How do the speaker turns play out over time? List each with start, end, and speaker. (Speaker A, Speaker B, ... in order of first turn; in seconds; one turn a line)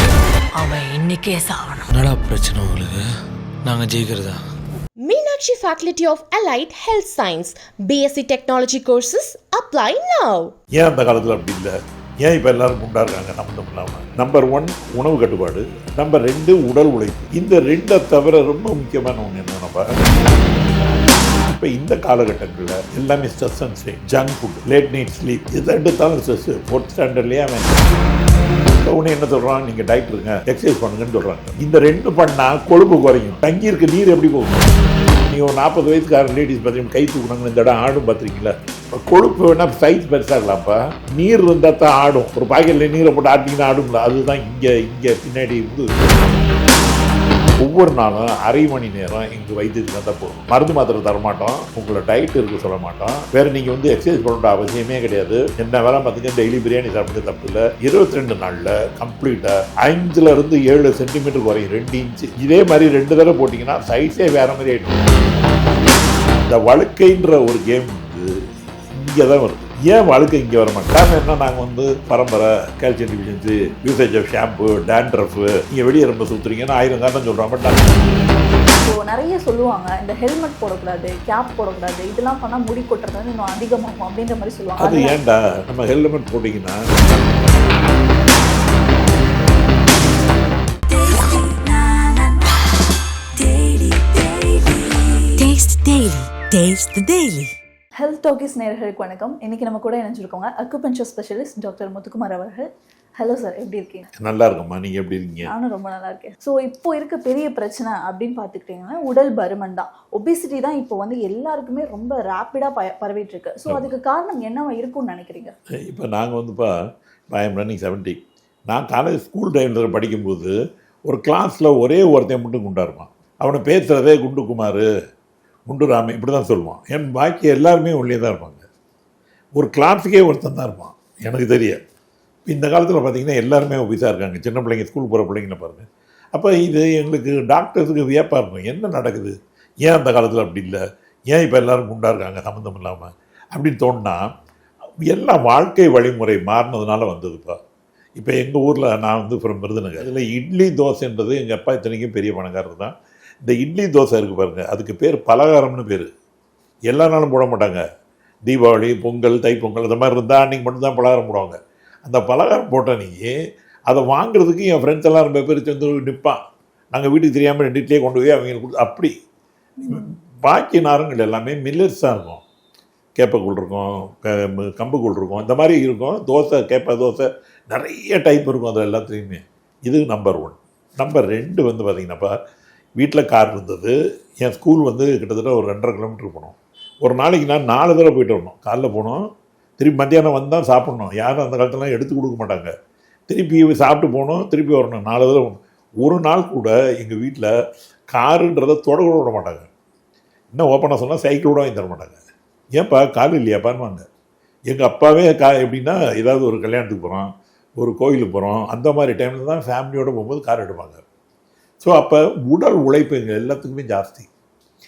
Speaker A: 0.5-1.9
Speaker B: 1.9-3.0
Speaker B: 3.6-4.4
Speaker C: 5.0-10.5
Speaker D: 10.7-19.9
Speaker D: 21.4-27.8
Speaker D: 28.8-34.7
Speaker D: 35.3-46.2
Speaker D: 47.6-65.0
Speaker D: 66.5-68.3
Speaker D: 68.9-78.0
Speaker E: 78.8-85.2
Speaker D: 84.8-86.8
Speaker E: 91.1-92.3
Speaker E: 93.4-95.1
Speaker A: 95.4-97.5
Speaker E: 98.0-102.7
Speaker E: 103.2-104.1
Speaker D: 104.2-105.5
Speaker E: 105.5-115.5
Speaker D: 113.7-113.9
Speaker D: 115.8-116.8
Speaker D: 117.3-120.5
Speaker D: 121.0-124.8
Speaker D: 125.7-128.6
Speaker D: 129.5-131.8
Speaker D: 132.5-144.3
Speaker D: 145.0-147.6
Speaker D: 148.2-156.1
Speaker D: 156.9-157.8
Speaker D: 158.5-163.3
Speaker D: 163.9-166.4
Speaker D: 166.9-169.1
Speaker E: 169.8-170.1
Speaker D: 169.9-172.4
Speaker D: 173.2-182.3
Speaker D: 183.0-192.7
Speaker D: 193.3-197.5
Speaker D: 198.1-199.7
Speaker D: 200.5-202.2
Speaker D: 202.8-204.0
Speaker D: 204.7-211.0
Speaker D: 211.8-214.3